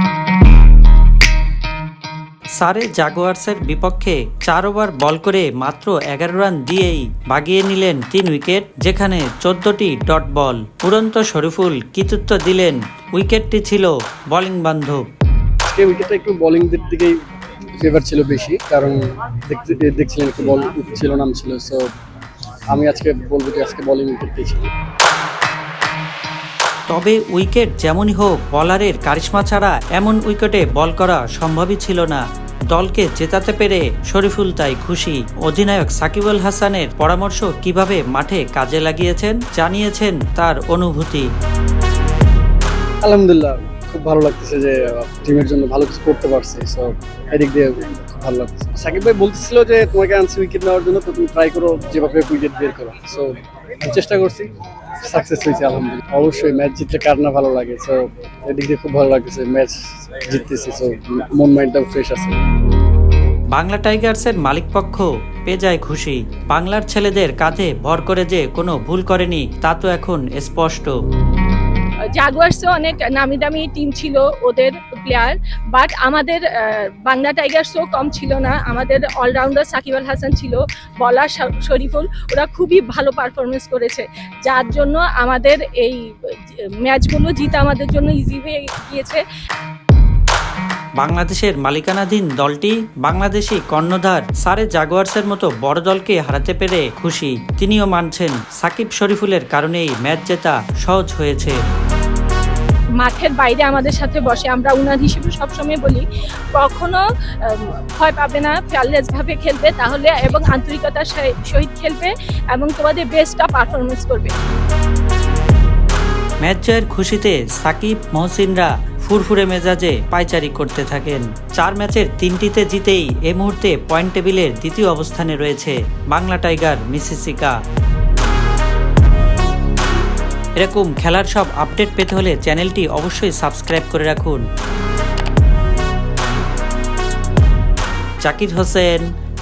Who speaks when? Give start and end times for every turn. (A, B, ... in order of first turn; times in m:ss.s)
0:02.6-0:15.0 A
0:15.7-0:17.2 B
0:17.8-0:21.9 B
0:22.7-0:24.6 B
0:26.9-0:41.3 A
0:43.0-0:54.5 B
0:55.0-1:02.4 B
1:03.5-1:10.9 A
1:12.1-1:29.2 C
1:31.0-1:41.6 A
1:43.0-1:54.3 C
1:56.4-2:07.6 A
2:10.6-2:14.4 A
2:18.2-2:19.1 A